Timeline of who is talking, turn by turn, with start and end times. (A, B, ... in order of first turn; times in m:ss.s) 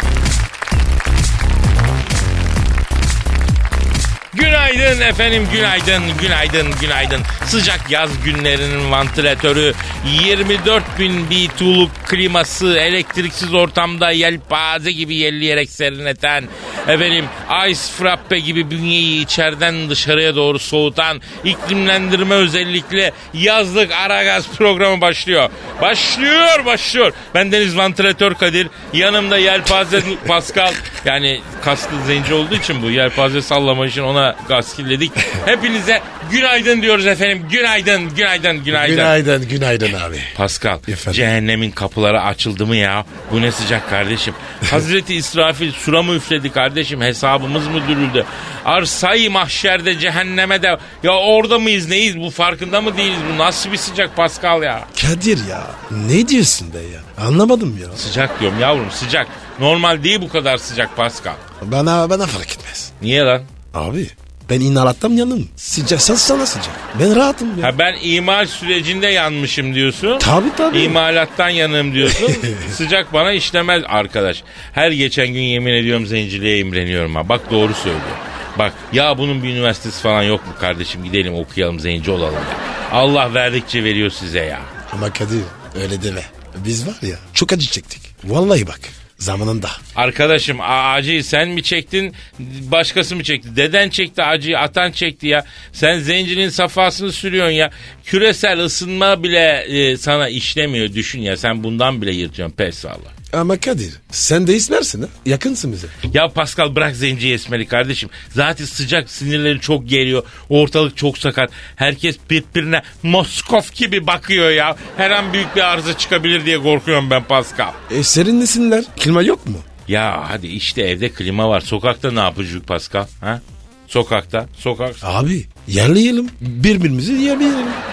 0:04.3-0:39.2 A
0:38.7-0:40.4 B
0:40.4-0:54.9 A
0:40.9-0:41.2 B
0:54.9-0:58.0 B
0:58.0-1:01.4 A
1:01.6-1:02.9 B
1:03.0-1:03.5 A
1:03.7-1:07.7 B
1:07.6-1:24.7 A
1:10.2-1:11.0 B
1:12.0-1:12.8 B
1:24.9-1:29.8 B
1:30.0-1:43.1 A
1:43.3-1:45.9 B
1:46.1-1:57.8 A
1:57.9-1:59.7 B
1:59.9-2:05.0 A
2:05.0-2:07.8 B